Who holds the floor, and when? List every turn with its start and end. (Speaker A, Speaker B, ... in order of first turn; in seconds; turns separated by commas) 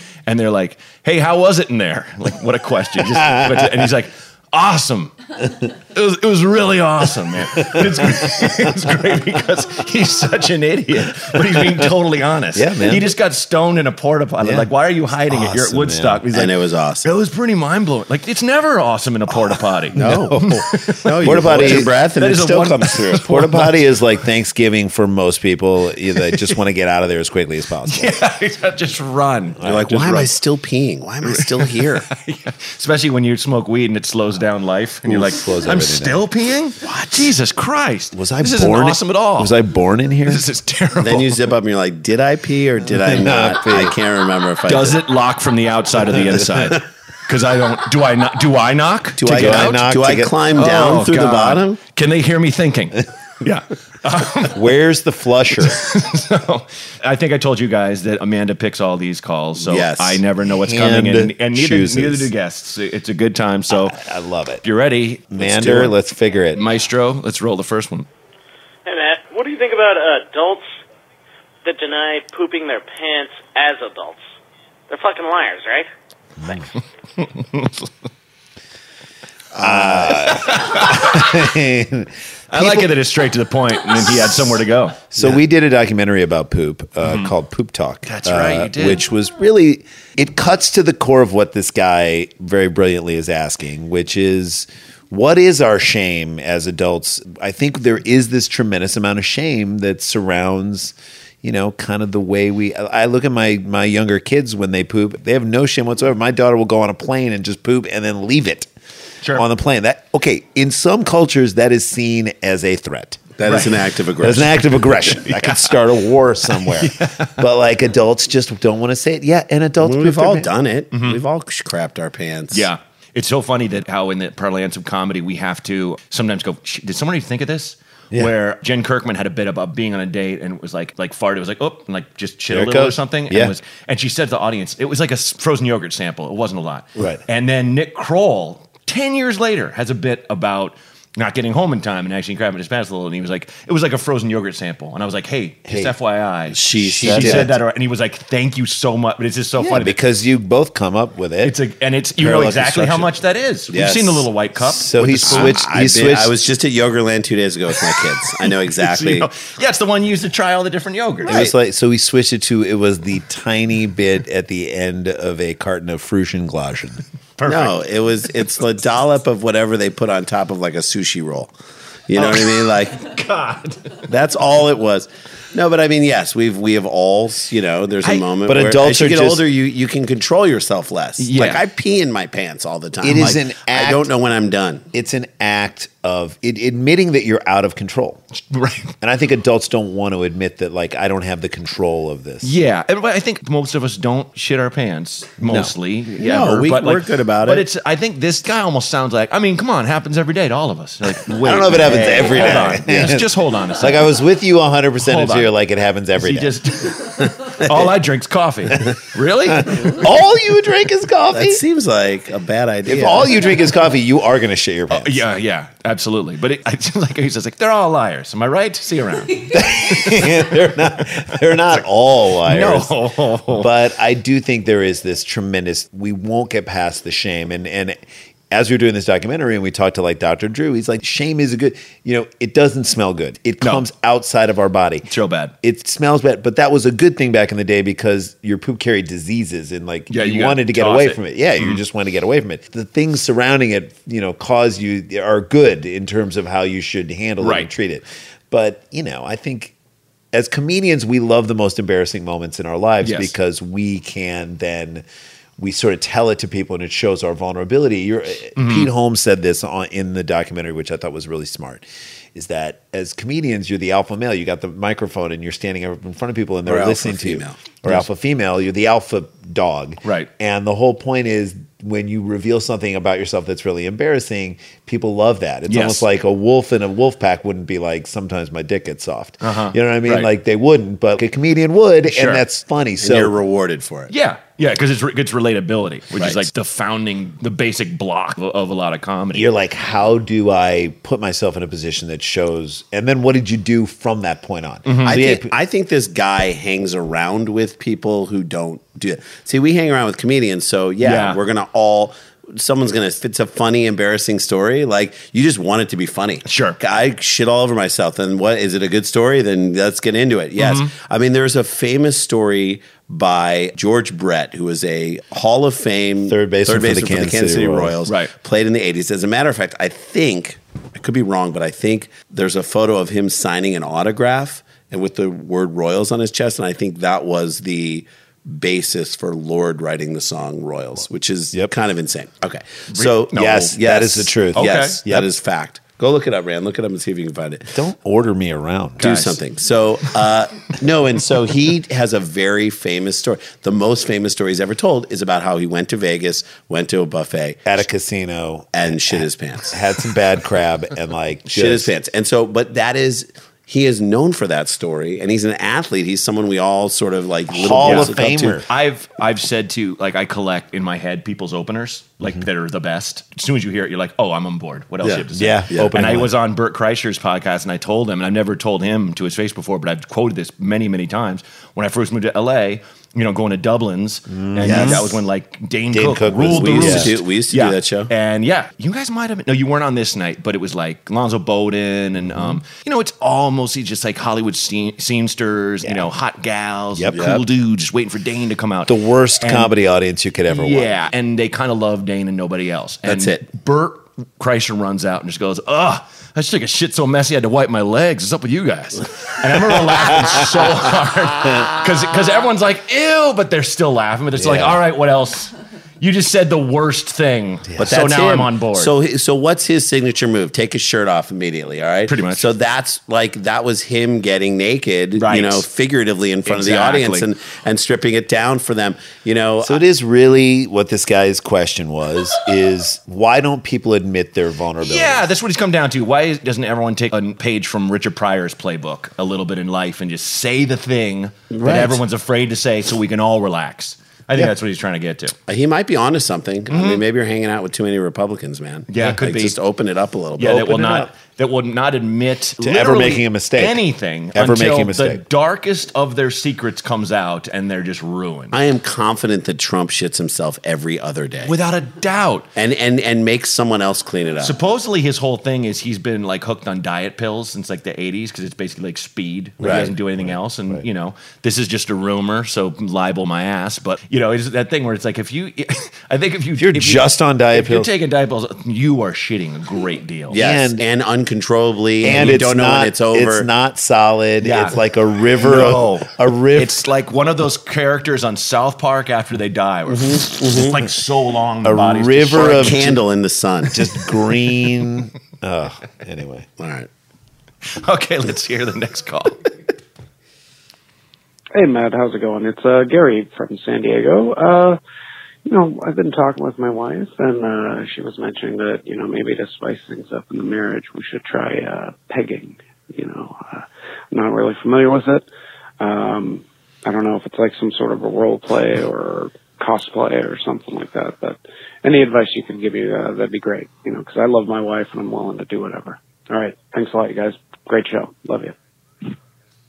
Speaker A: 0.2-5.1, Speaker B: 3.2-3.7, Speaker A: 5.8-23.7, Speaker B: 7.7-8.4, Speaker B: 12.5-13.1, Speaker B: 14.4-16.2, Speaker C: 16.3-17.1, Speaker C: 19.3-20.4, Speaker B: 19.9-21.9, Speaker C: 21.0-23.3, Speaker B: 23.2-28.1, Speaker A: 27.9-30.3, Speaker B: 29.6-30.1, Speaker C: 29.6-32.0, Speaker A: 31.2-39.6, Speaker B: 35.0-36.2, Speaker C: 36.8-37.3, Speaker B: 38.1-40.4, Speaker A: 40.3-41.3, Speaker C: 41.0-45.0, Speaker B: 42.9-44.0, Speaker A: 44.6-49.8, Speaker C: 49.2-51.8, Speaker B: 49.2-50.3, Speaker A: 50.5-54.7, Speaker B: 54.5-56.0, Speaker A: 55.6-64.0, Speaker C: 59.6-60.2, Speaker B: 60.5-62.3, Speaker B: 63.7-64.6, Speaker A: 64.6-65.9, Speaker B: 65.3-66.6, Speaker C: 65.4-65.9, Speaker A: 66.5-68.1, Speaker D: 68.8-70.7, Speaker D: 71.6-74.2, Speaker D: 74.9-75.9, Speaker B: 76.4-76.7, Speaker A: 76.7-77.9, Speaker C: 79.5-80.2, Speaker B: 79.6-82.9, Speaker A: 80.2-81.3, Speaker A: 82.5-85.0, Speaker B: 85.1-108.7, Speaker A: 87.0-87.3, Speaker A: 88.0-89.0, Speaker B: 109.3-113.3, Speaker C: 113.4-114.6, Speaker A: 113.5-113.7, Speaker B: 114.2-120.5, Speaker A: 114.9-115.8, Speaker A: 116.5-117.4, Speaker C: 119.8-122.7, Speaker A: 120.9-121.2, Speaker A: 122.5-150.0, Speaker B: 132.5-133.5, Speaker B: 145.7-145.9, Speaker C: 146.5-147.6, Speaker B: 147.0-147.6, Speaker B: 149.7-151.6, Speaker A: 151.4-155.6, Speaker B: 152.2-153.1, Speaker C: 153.7-154.3, Speaker B: 154.6-156.3, Speaker C: 155.3-159.3, Speaker A: 158.7-161.4, Speaker B: 161.3-167.0, Speaker A: 167.4-167.8, Speaker C: 167.4-171.5, Speaker C: 172.1-173.1, Speaker A: 172.2-174.0, Speaker C: 174.1-184.8, Speaker B: 178.4-179.4, Speaker A: 181.2-181.6, Speaker B: 183.0-184.1, Speaker B: 184.9-188.2, Speaker A: 188.3-188.9, Speaker B: 189.0-192.5, Speaker A: 192.4-204.1, Speaker B: 195.4-195.7, Speaker C: 196.1-197.7, Speaker B: 201.3-206.6, Speaker C: 201.7-203.1, Speaker A: 205.0-205.5, Speaker A: 206.2-210.0, Speaker B: 209.5-211.6, Speaker C: 211.3-213.5, Speaker B: 212.8-215.2, Speaker A: 214.9-220.4, Speaker B: 219.5-228.0, Speaker A: 222.4-223.7, Speaker B: 228.5-235.1, Speaker A: 233.6-233.8, Speaker A: 235.1-235.5, Speaker B: 235.6-249.7, Speaker A: 240.1-241.8, Speaker A: 247.4-247.7, Speaker B: 250.3-255.0, Speaker A: 253.0-253.3, Speaker B: 255.6-283.3, Speaker A: 258.6-258.9, Speaker C: 266.6-267.6, Speaker A: 270.0-270.3, Speaker A: 275.7-276.1, Speaker A: 279.4-280.3, Speaker A: 282.1-282.4, Speaker C: 283.0-284.1, Speaker A: 284.1-289.5, Speaker C: 286.2-286.4, Speaker B: 289.3-295.5, Speaker A: 294.9-295.2, Speaker C: 295.0-337.8, Speaker A: 301.0-301.4, Speaker A: 306.4-306.8, Speaker A: 310.6-310.9, Speaker B: 316.3-317.9, Speaker A: 318.1-318.3, Speaker A: 332.9-333.7, Speaker B: 333.3-335.3, Speaker A: 334.5-335.0, Speaker B: 337.7-339.1, Speaker A: 339.0-339.4, Speaker C: 339.0-347.8, Speaker B: 347.6-351.9, Speaker C: 348.7-349.8, Speaker C: 351.5-358.6, Speaker B: 357.5-358.6, Speaker A: 357.8-358.1, Speaker A: 358.6-389.7, Speaker C: 365.0-365.9, Speaker B: 365.3-366.3, Speaker B: 374.3-375.2, Speaker C: 374.6-375.1, Speaker B: 375.9-377.1, Speaker C: 376.5-378.1, Speaker B: 382.3-382.6, Speaker B: 385.8-386.1, Speaker B: 386.9-387.3, Speaker C: 387.1-387.4, Speaker B: 388.9-390.9, Speaker A: 390.5-408.9, Speaker C: 393.1-393.4, Speaker B: 400.1-400.4, Speaker B: 404.3-404.8, Speaker B: 407.7-408.0, Speaker C: 407.8-419.8, Speaker A: 412.1-412.5, Speaker A: 415.1-415.6, Speaker A: 416.4-417.3, Speaker B: 419.6-425.3, Speaker A: 424.8-435.3, Speaker C: 431.5-432.0, Speaker C: 435.5-441.1, Speaker A: 436.7-437.0, Speaker A: 438.9-439.6, Speaker A: 440.4-448.5, Speaker B: 442.6-445.2, Speaker C: 448.5-451.5, Speaker A: 451.4-452.5, Speaker C: 452.5-454.6, Speaker A: 454.4-470.4, Speaker C: 459.6-459.9, Speaker B: 459.6-460.8, Speaker B: 466.6-467.9, Speaker C: 470.3-473.5, Speaker B: 470.3-470.8, Speaker B: 472.0-476.8, Speaker A: 474.4-474.8, Speaker A: 475.4-482.9, Speaker C: 479.9-480.8, Speaker B: 481.6-483.0, Speaker C: 482.3-483.9, Speaker B: 483.7-486.5, Speaker C: 486.6-486.9, Speaker A: 487.6-489.5, Speaker E: 491.5-494.8, Speaker E: 495.4-505.3, Speaker E: 505.8-518.5